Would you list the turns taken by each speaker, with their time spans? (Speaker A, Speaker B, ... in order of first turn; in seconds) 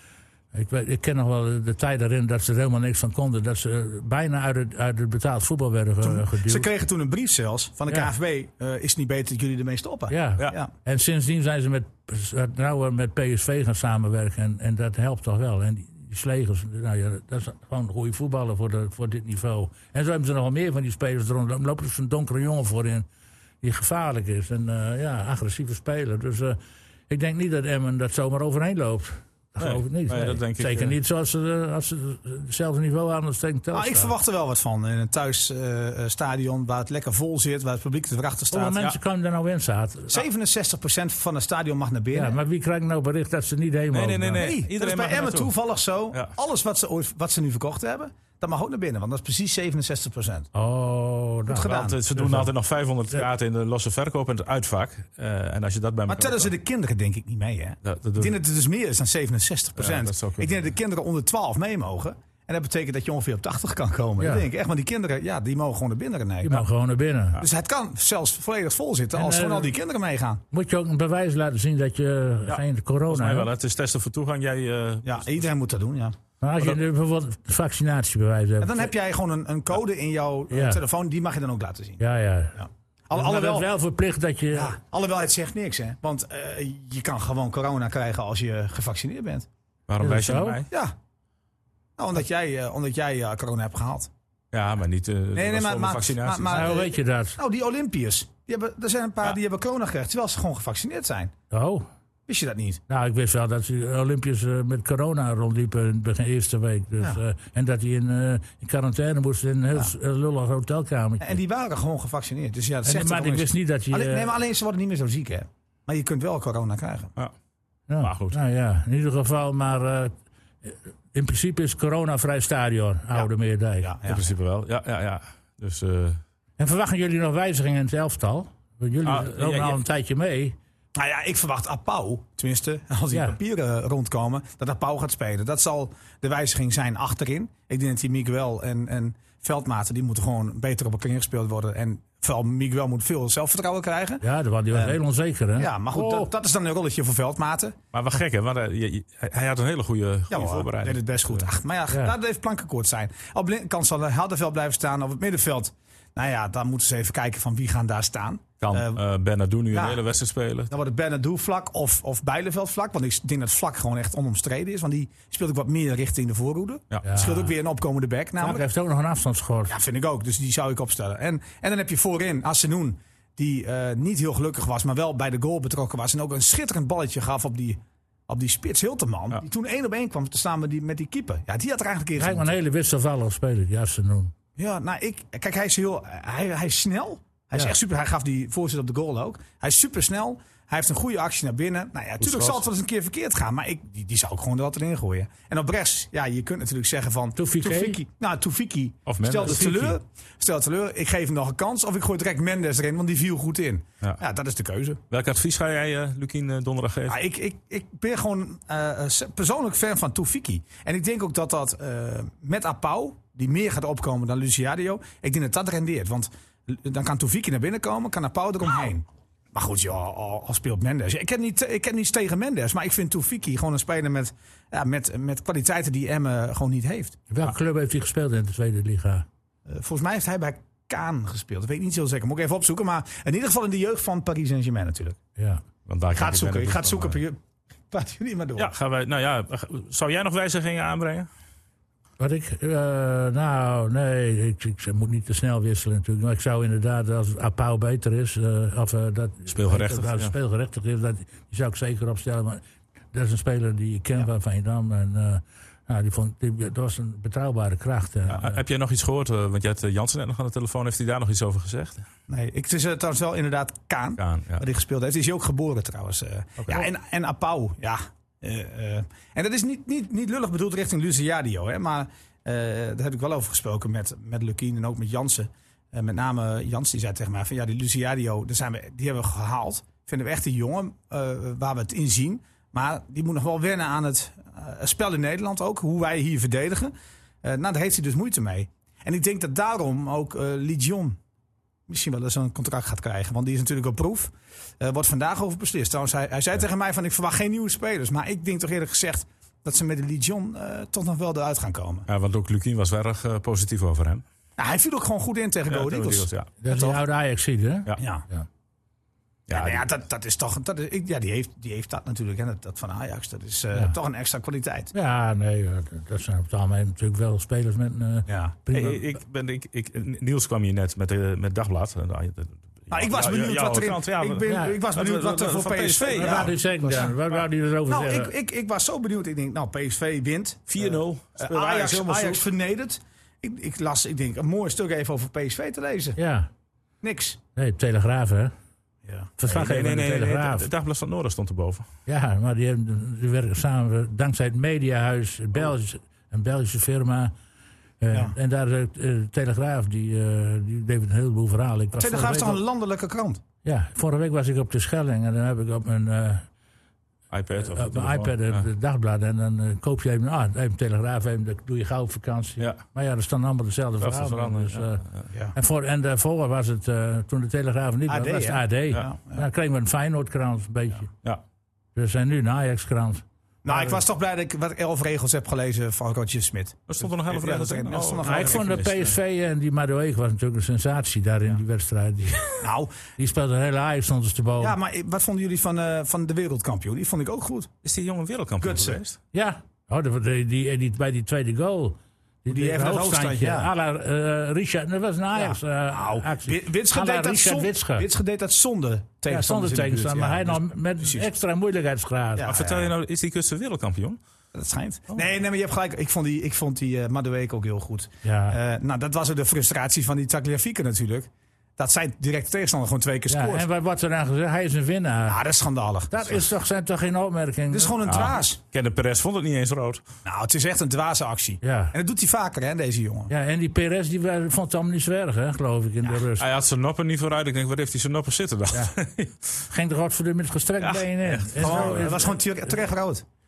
Speaker A: 0.5-6.7, 10.1-23.1, 23.6-26.6, 27.1-34.1, 38.5-40.2, 42.1-44.5, 50.5-52.5, 64.2-64.5, 66.4-67.4, 69.1-69.7, 70.5-73.5, 76.4-78.9, 80.5-80.8, 82.0-82.6, 83.1-84.8, 90.0-90.6, 96.5-97.4, 101.5-101.9, 102.9-111.4, 112.8-114.3, 117.9-123.9, 126.6-130.6, 133.1-133.4, 144.2-146.3, 167.0-167.5, 168.4-169.8, 182.2-184.3, 197.3-198.0, 199.4-199.9, 227.3-229.2, 235.4-235.6, 242.2-252.6, 253.1-258.6, 306.6-308.5, 314.9-319.0, 324.5-324.8, 326.1-328.3, 336.2-336.5, 337.5-338.5, 339.4-340.7, 342.1-347.3, 348.0-352.6, 353.6-356.4, 357.6-365.0, 365.5-371.1, 371.9-374.0, 378.2-382.6, 383.2-384.8, 389.3-398.1, 399.3-402.5, 408.2-408.6, 413.3-415.4, 416.1-418.0, 421.6-421.9, 423.3-426.5, 429.7-432.4
Speaker B: 6.0-10.7, 33.7-38.8, 40.1-42.4, 44.4-50.5, 51.5-52.0, 56.1-66.6, 67.4-70.4, 75.0-76.2, 78.6-82.0, 82.5-83.7, 84.5-89.5, 90.7-90.9, 92.0-94.1, 95.3-101.3, 102.3-102.8, 111.2-117.1, 123.8-124.2, 130.9-145.0, 145.6-147.8, 150.3-159.0, 159.7-160.0, 160.7-168.7, 169.7-182.6, 184.6-205.0, 207.1-227.2, 229.7-235.2, 236.1-237.4, 237.9-238.7, 262.3-291.2, 291.9-302.1, 304.6-307.0, 308.0-308.2, 309.5-314.9, 318.3-318.5, 322.9-327.2, 327.9-336.2, 337.0-337.4, 339.0-339.3, 351.9-353.4, 368.1-369.4, 373.6-378.8, 382.6-382.9, 384.6-387.7, 388.6-389.0, 392.5-393.7, 395.3-401.3, 402.4-402.9, 404.5-413.7, 415.3-416.5, 417.7-418.6, 420.2-423.3, 431.5-433.2
Speaker C: 29.6-30.9, 43.9-45.5, 51.5-56.5, 57.8-58.4, 59.8-60.6, 72.5-75.5, 89.9-90.7, 94.5-96.6, 118.0-118.4, 124.0-126.2, 129.0-129.8, 147.9-151.5, 158.6-160.7, 192.2-192.6, 199.1-199.9, 205.1-207.2, 235.8-237.2, 238.6-241.3, 249.5-250.3, 258.3-262.1, 264.2-264.6, 266.6-266.9, 302.1-304.2, 305.7-306.5, 309.5-309.9, 318.7-326.5, 330.7-332.4, 339.5-341.9, 357.3-358.6, 364.0-365.3, 376.9-379.1, 387.8-389.2, 402.4-404.2, 418.0-420.0, 426.4-429.6, 430.8-432.1